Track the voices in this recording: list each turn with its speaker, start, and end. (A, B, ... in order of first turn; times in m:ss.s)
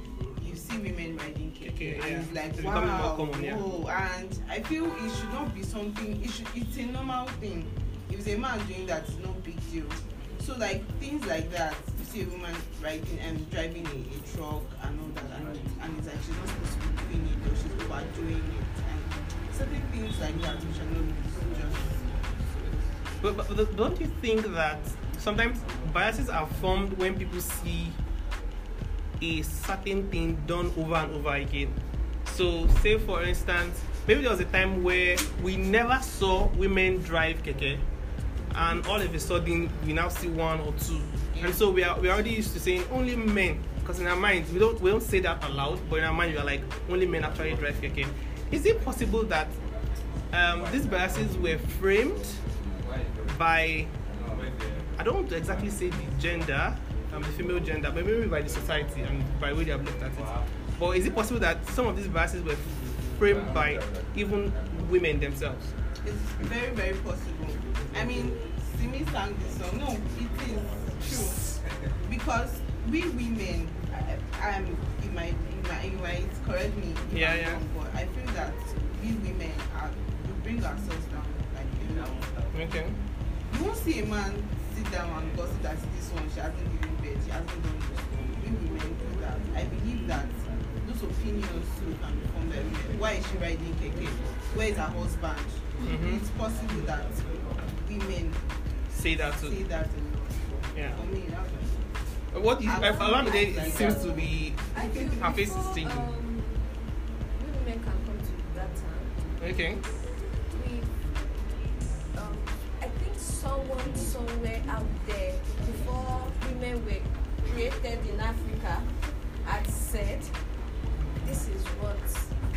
0:00.4-0:22.1 A
0:01.6-0:03.6 B
0:23.2-0:28.0 B
0:29.2-0:37.8 B
0:38.5-0:49.6 B
0:41.3-0:41.6 A
0:50.3-0:52.4 B
0:53.3-0:53.9 B
0:55.0-1:05.7 B
1:06.0-1:11.5 A
1:12.0-1:22.3 A
1:17.1-1:17.6 B
1:22.5-1:23.0 B
1:23.5-1:38.4 A
1:35.8-1:36.2 B
1:38.9-1:39.6 B
1:39.3-1:41.8 A
1:40.7-1:41.0 B
1:42.3-1:46.1 B
1:42.6-1:45.2 A
1:42.8-1:46.8 C
1:47.4-1:49.7 C
1:49.4-1:49.8 B
1:50.5-1:50.9 C
1:52.1-1:58.9 C
1:59.4-2:00.3 C
2:01.2-2:02.3 C